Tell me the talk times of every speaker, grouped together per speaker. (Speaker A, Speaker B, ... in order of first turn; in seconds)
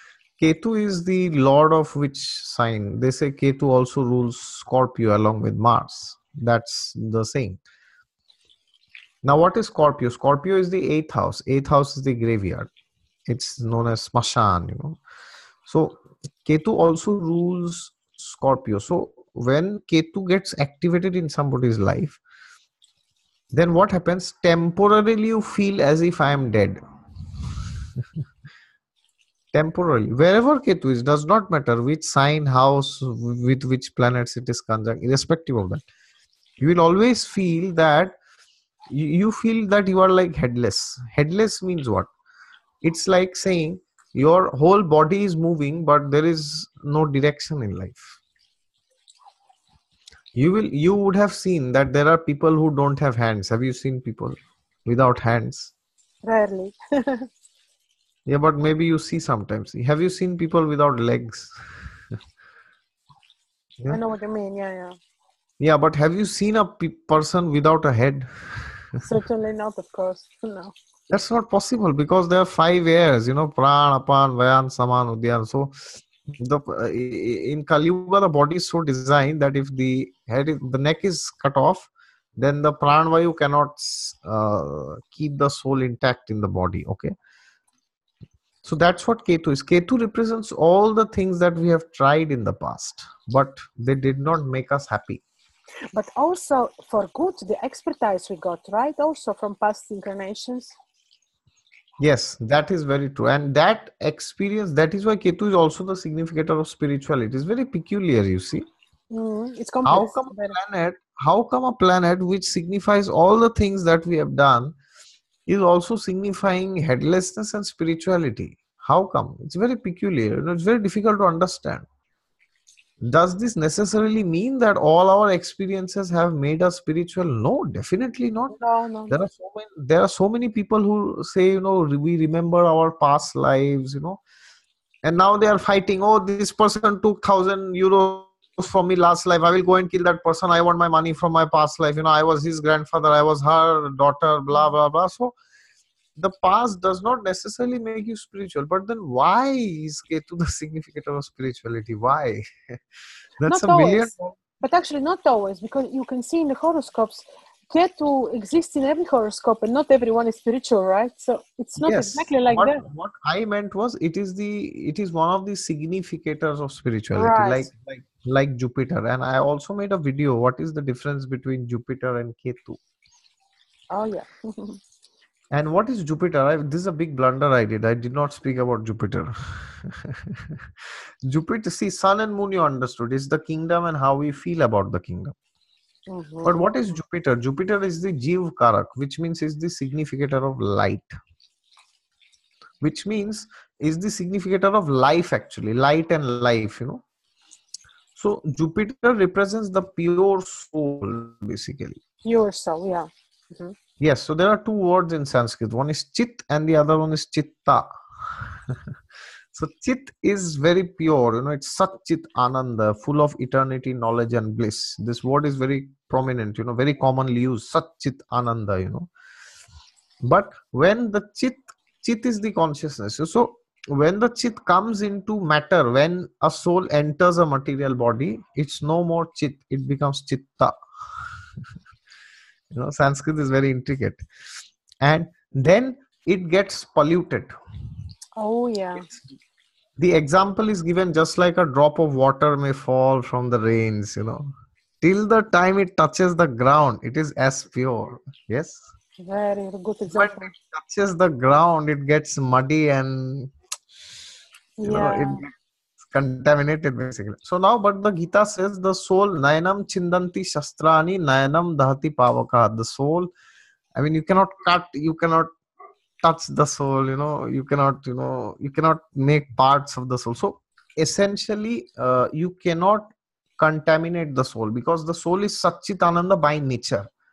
Speaker A: 0.4-7.6, 9.2-12.7, 13.3-15.0, 15.7-22.2, 23.5-26.8, 29.5-35.8, 36.6-38.1, 38.9-42.1, 42.8-48.2, 50.4-55.7, 58.2-61.5, 65.6-68.3, 71.1-87.1, 88.6-95.2, 102.0-108.6, 109.8-114.8, 115.5-121.9, 123.0-128.6, 129.1-134.2, 135.0-145.3, 146.2-152.4, 153.4-154.4, 161.8-172.8, 175.5-180.6, 181.3-185.3, 186.4-191.1, 192.8-197.0, 198.2-202.0, 204.0-207.9, 209.5-219.1, 220.2-230.8, 232.7-234.2, 235.0-237.5, 240.0-244.4, 245.0-248.8, 250.1-253.5, 254.8-255.5, 256.1-263.3, 263.9-265.5, 266.2-277.1
Speaker B: 56.2-57.2, 63.9-64.9, 69.0-70.7, 95.9-100.7, 109.1-110.6, 128.5-129.1, 153.4-162.8, 167.1-167.7, 173.9-174.8, 186.1-186.6, 202.2-203.7, 238.4-239.1, 249.2-250.5, 254.8-255.4